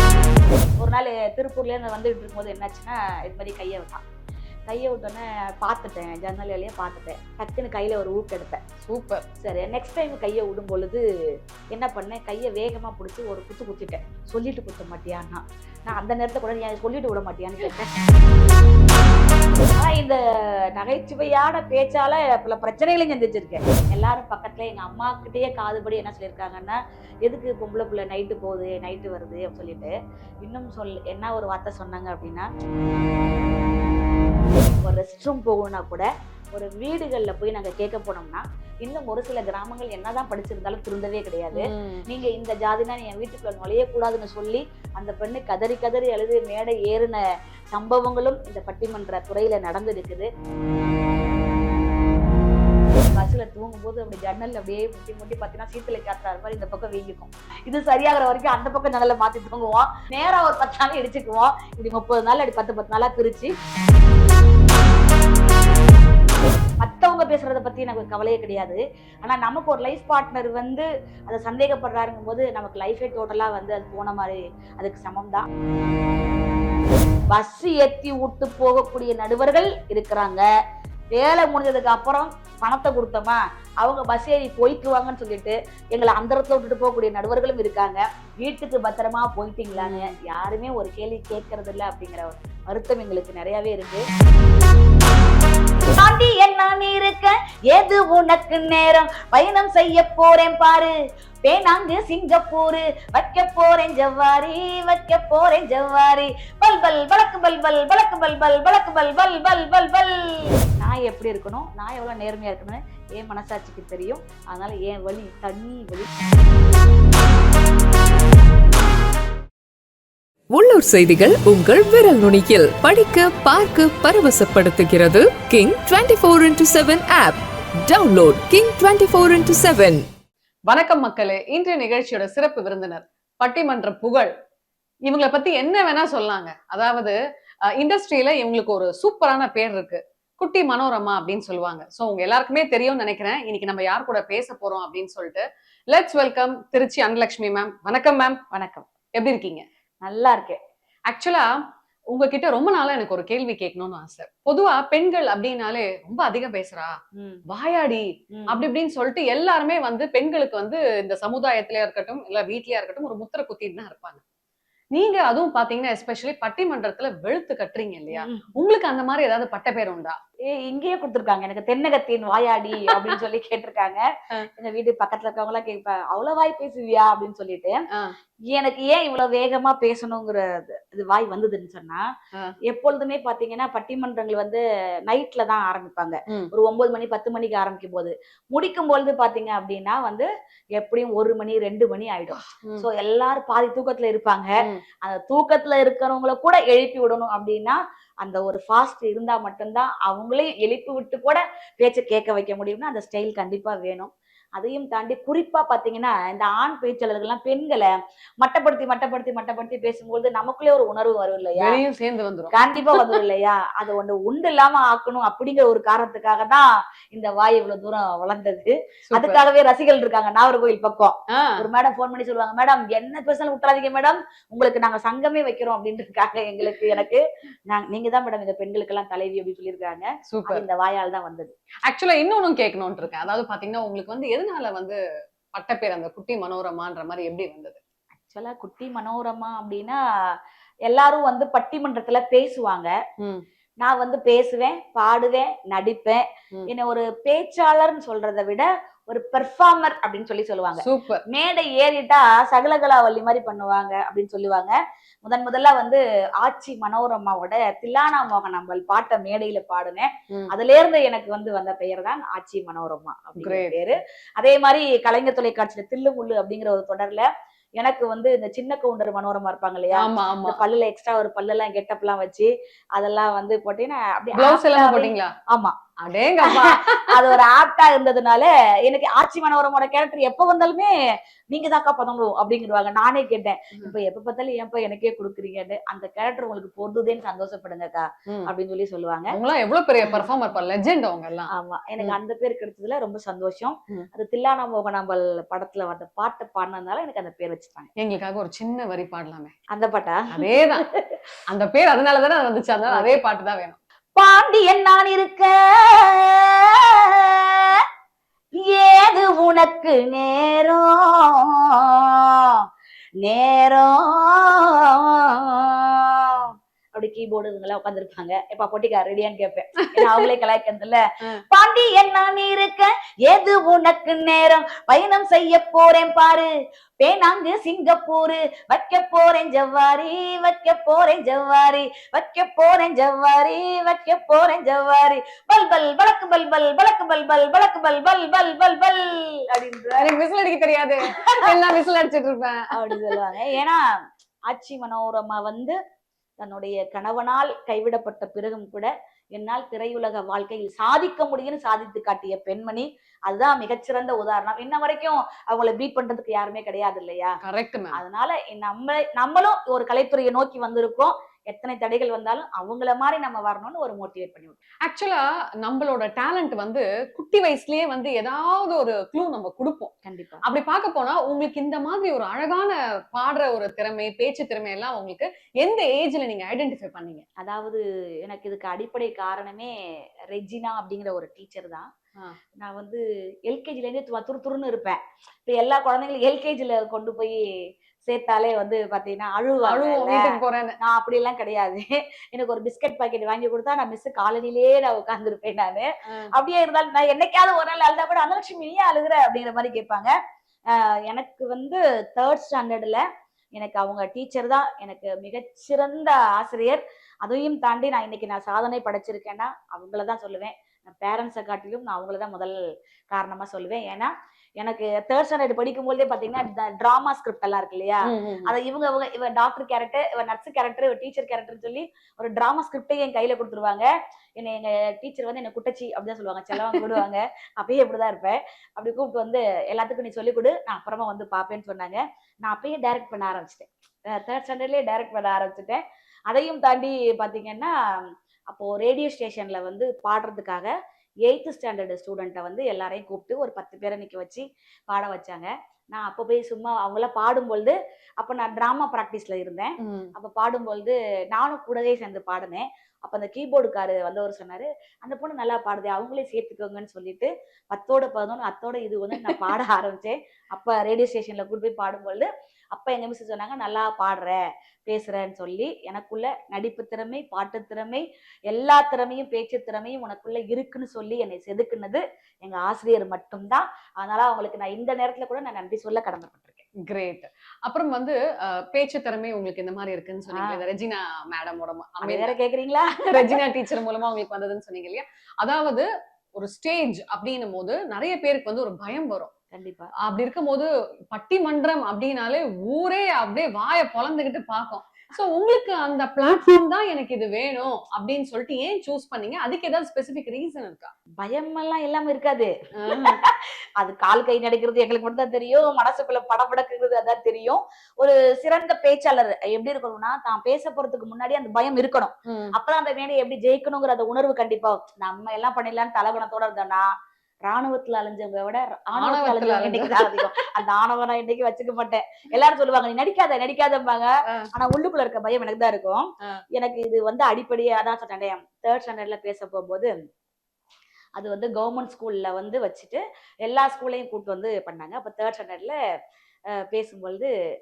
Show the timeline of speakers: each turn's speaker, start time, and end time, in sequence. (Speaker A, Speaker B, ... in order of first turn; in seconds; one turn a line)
Speaker A: 0.8-4.0
Speaker A: 4.7-8.6
Speaker B: 8.8-9.2
Speaker A: 9.4-11.0
Speaker A: 11.7-18.0
Speaker A: 19.6-32.5
Speaker A: 34.5-50.3
Speaker B: 41.5-42.0
Speaker A: 52.9-63.5
Speaker A: 66.8-75.5
Speaker A: 77.3-80.5
Speaker A: 81.1-94.0
Speaker B: 89.7-90.1
Speaker A: 95.8-100.9
Speaker A: 101.4-116.1
Speaker C: 120.5-130.0
Speaker B: 130.7-134.3
Speaker B: 135.1-137.2
Speaker B: 137.7-148.4
Speaker A: 148.5-148.8
Speaker B: 149.1-149.6
Speaker A: 150.0-150.6
Speaker B: 151.1-151.5
Speaker B: 152.1-156.9
Speaker A: 157.1-157.4
Speaker B: 157.5-164.2
Speaker A: 158.3-158.6
Speaker B: 164.9-170.2
Speaker A: 168.1-168.5
Speaker A: 170.5-174.0
Speaker B: 172.8-173.2
Speaker A: 174.6-177.8
Speaker A: 178.5-182.0
Speaker A: 182.7-207.9
Speaker B: 192.3-192.8
Speaker A: 208.4-211.8
Speaker B: 211.6-213.2
Speaker A: 212.5-231.5
Speaker B: 219.1-219.4
Speaker B: 221.3-221.6
Speaker B: 230.3-230.7
Speaker B: 231.8-235.0
Speaker B: 235.5-237.8
Speaker A: 238.3-240.3
Speaker A: 240.8-242.9
Speaker B: 243.2-243.4
Speaker A: 243.8-267.3
Speaker B: 250.8-251.2
Speaker B: 263.4-263.8
Speaker A: 267.8-275.7
Speaker B: 269.9-270.6
Speaker B: 274.3-275.3
Speaker B: 276.0-277.4
Speaker A: 276.4-280.9
Speaker A: 281.5-289.3
Speaker B: 289.3-292.1
Speaker A: 291.5-297.9
Speaker B: 298.0-299.5
Speaker A: 299.7-301.2
Speaker B: 300.3-300.8
Speaker B: 301.5-303.8
Speaker A: 302.9-303.2
Speaker A: 304.2-307.8
Speaker A: 308.6-312.6
Speaker A: 313.2-321.0
Speaker A: 321.5-326.5
Speaker A: 327.0-340.1
Speaker B: 340.0-343.2
Speaker A: 341.1-341.6
Speaker A: 342.7-343.8
Speaker A: 344.5-345.8
Speaker A: 346.4-357.4
Speaker B: 357.4-358.0
Speaker A: 357.9-364.6
Speaker B: 364.8-377.2
Speaker A: 370.0-370.4
Speaker A: 377.4-379.7
Speaker A: 380.3-381.9
Speaker A: 382.6-387.4
Speaker A: 388.0-400.1
Speaker B: 389.6-390.8
Speaker A: 400.7-403.0
Speaker A: 403.5-412.6
Speaker A: 413.1-437.7
Speaker B: 418.1-418.5
Speaker B: 426.6-427.0
Speaker A: 438.5-440.7
Speaker A: 441.2-476.6
Speaker B: 449.8-450.1
Speaker B: 476.8-482.3
Speaker A: 480.3-480.6
Speaker A: 482.0-483.4
Speaker B: 483.1-489.3
Speaker A: 489.5-489.9
Speaker B: 490.0-500.9
Speaker A: 501.2-516.9
Speaker B: 502.7-503.2
Speaker B: 512.2-512.5
Speaker A: 517.5-529.9
Speaker B: 518.9-520.5
Speaker A: 531.1-535.8
Speaker A: 536.5-537.3